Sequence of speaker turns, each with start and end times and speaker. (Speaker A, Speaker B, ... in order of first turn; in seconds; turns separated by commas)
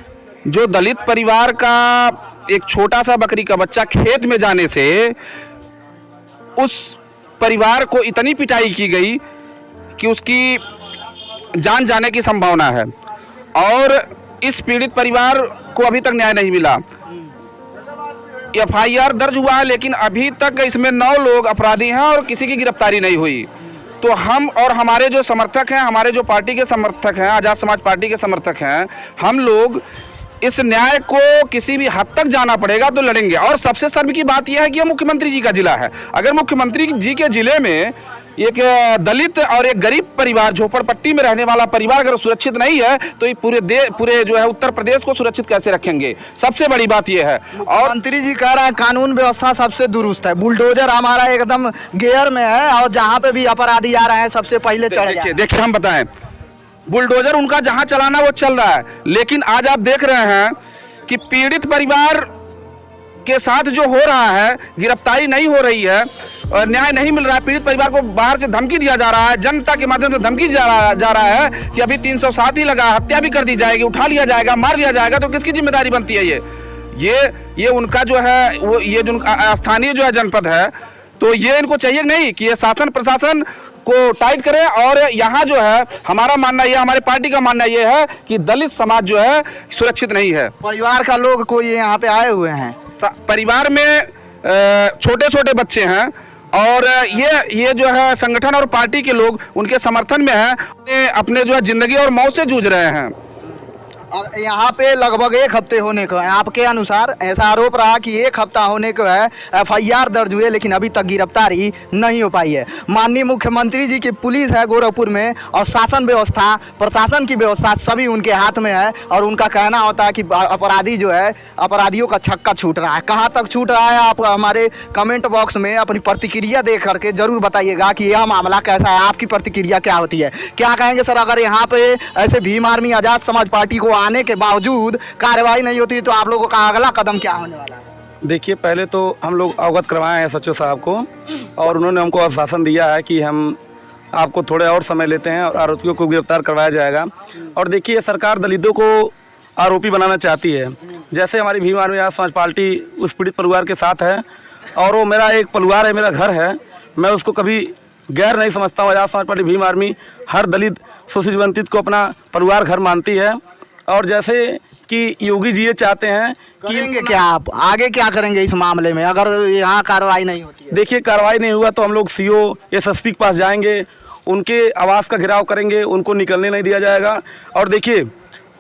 Speaker A: 0.5-5.2, Speaker A: 6.6-9.2, Speaker A: 10.0-10.6, Speaker A: 11.6-12.9, Speaker A: 13.6-16.8, Speaker A: 18.5-23.5, Speaker A: 24.0-29.8, Speaker A: 30.4-47.9, Speaker B: 47.6-55.4, Speaker A: 54.9-56.1, Speaker A: 56.9-60.5, Speaker A: 61.1-62.3, Speaker A: 63.2-76.4, Speaker A: 77.0-90.5, Speaker B: 90.6-92.8, Speaker A: 92.9-103.1, Speaker B: 104.1-137.8, Speaker C: 138.2-143.6, Speaker C: 144.1-154.2, Speaker C: 154.8-167.0, Speaker B: 166.6-170.8, Speaker C: 170.7-178.1